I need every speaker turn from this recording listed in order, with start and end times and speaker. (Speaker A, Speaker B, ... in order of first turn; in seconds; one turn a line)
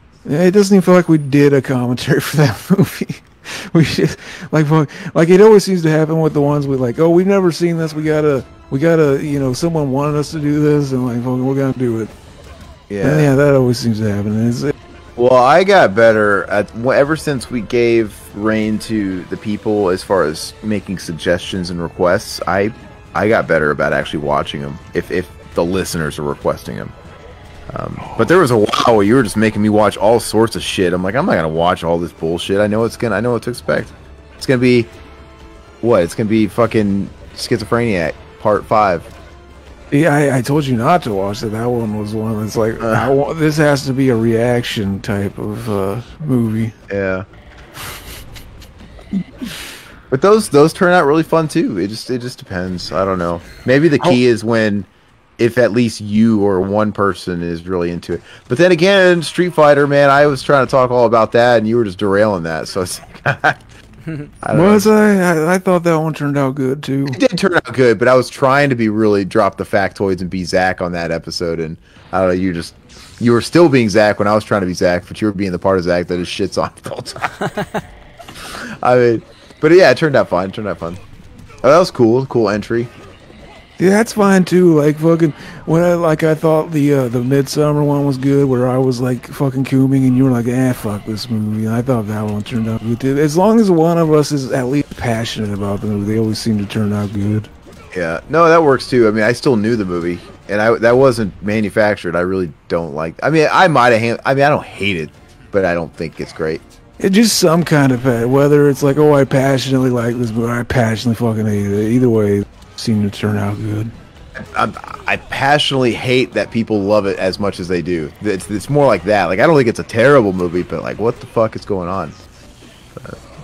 Speaker A: 0.2-12.1
Speaker B: 12.9-13.3
Speaker A: 13.0-14.7
Speaker B: 15.2-26.9
Speaker B: 27.7-34.9
Speaker A: 28.0-28.3
Speaker B: 35.8-39.1
Speaker A: 39.9-46.7
Speaker B: 42.8-43.1
Speaker B: 46.9-47.3
Speaker B: 50.1-63.6
Speaker B: 64.4-64.9
Speaker A: 64.5-67.2
Speaker B: 67.1-77.4
Speaker B: 78.5-81.0
Speaker B: 81.6-82.9
Speaker A: 83.8-97.5
Speaker B: 97.9-106.6
Speaker A: 107.0-113.9
Speaker B: 114.3-122.2